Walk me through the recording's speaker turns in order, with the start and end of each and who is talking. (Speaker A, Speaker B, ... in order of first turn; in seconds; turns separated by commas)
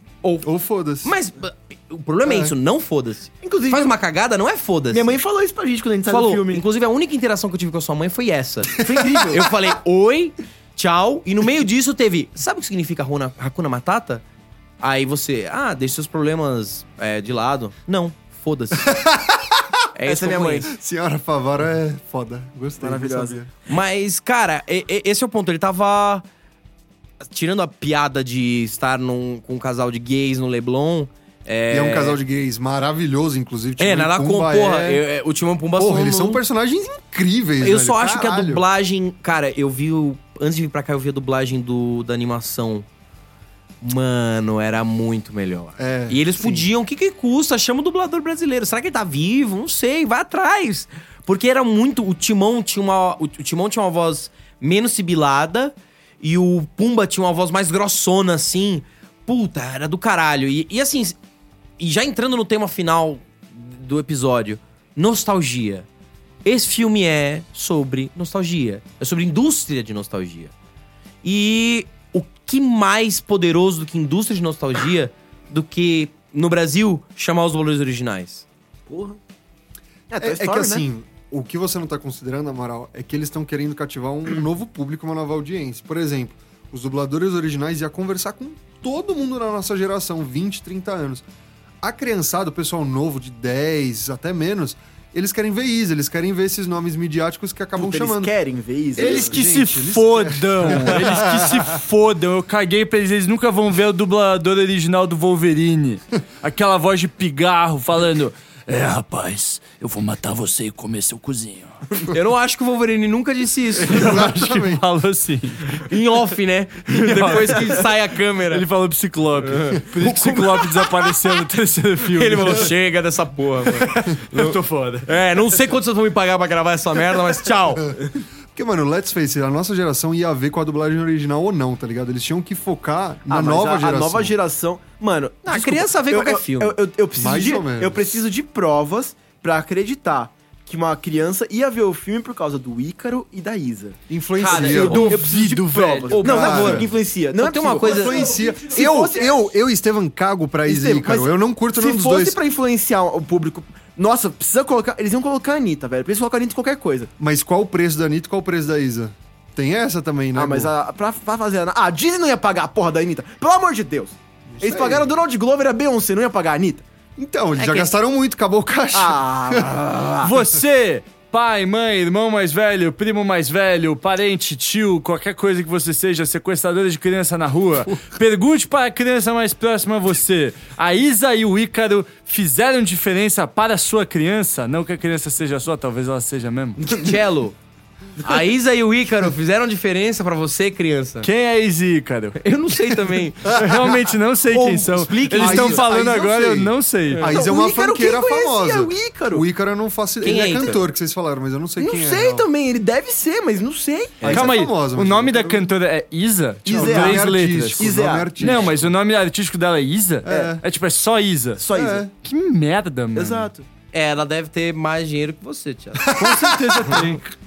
Speaker A: 0.2-0.5, Speaker B: 0.4-1.1, Speaker A: 1.0-5.2, Speaker B: 2.2-2.5, Speaker C: 3.4-3.9, Speaker C: 4.9-6.6, Speaker A: 6.1-14.2, Speaker B: 8.8-9.4, Speaker C: 8.8-9.5, Speaker A: 14.8-19.0, Speaker B: 18.8-19.6, Speaker A: 19.9-20.7, Speaker C: 20.1-20.7, Speaker B: 20.7-23.5, Speaker C: 22.8-23.4, Speaker A: 23.7-26.2, Speaker A: 27.3-32.2, Speaker B: 31.7-35.0, Speaker A: 33.8-36.4, Speaker B: 35.8-38.6, Speaker A: 37.6-42.9, Speaker A: 43.8-61.2, Speaker B: 45.8-46.7, Speaker A: 61.8-65.9, Speaker A: 66.5-70.5, Speaker A: 71.2-78.5, Speaker C: 78.9-79.2, Speaker C: 80.1-80.8, Speaker B: 80.2-91.2, Speaker B: 91.8-98.3, Speaker C: 97.8-99.4, Speaker B: 99.0-101.8, Speaker D: 99.0-111.8, Speaker A: 112.0-114.3, Speaker B: 113.8-114.8, Speaker D: 113.8-115.8, Speaker A: 115.7-118.7, Speaker D: 116.9-117.9, Speaker D: 118.5-122.7, Speaker A: 119.4-121.1, Speaker A: 122.1-128.0, Speaker D: 123.8-125.1, Speaker B: 128.5-134.3, Speaker C: 133.3-144.0, Speaker A: 135.5-136.8, Speaker B: 137.2-138.2, Speaker B: 144.1-145.2, Speaker A: 144.4-145.2, Speaker D: 144.5-146.3, Speaker C: 144.5-149.4, Speaker A: 146.1-148.6, Speaker B: 146.2-146.9, Speaker B: 147.8-152.4, Speaker C: 150.7-157.1, Speaker B: 157.2-160.7, Speaker C: 160.3-166.8, Speaker B: 164.5-165.1, Speaker B: 167.2-170.2, Speaker C: 168.9-170.2, Speaker D: 170.2-186.9, Speaker A: 186.9-187.6, Speaker A: 188.2-191.3, Speaker D: 191.2-192.4, Speaker A: 192.4-193.7, Speaker D: 193.5-197.3, Speaker B: 193.6-193.9, Speaker A: 194.5-195.9, Speaker B: 195.3-202.5, Speaker C: 197.2-199.4, Speaker A: 200.2-200.8, Speaker C: 201.8-204.2, Speaker A: 204.2-204.5, Speaker B: 204.2-205.7, Speaker D: 204.3-211.6, Speaker C: 206.7-208.6, Speaker B: 206.7-208.9, Speaker B: 210.2-210.6, Speaker C: 210.3-210.6, Speaker C: 211.6-212.1, Speaker B: 211.7-212.1, Speaker D: 212.2-213.5, Speaker C: 213.1-213.7, Speaker A: 213.9-216.1, Speaker B: 216.0-217.1, Speaker D: 216.1-217.3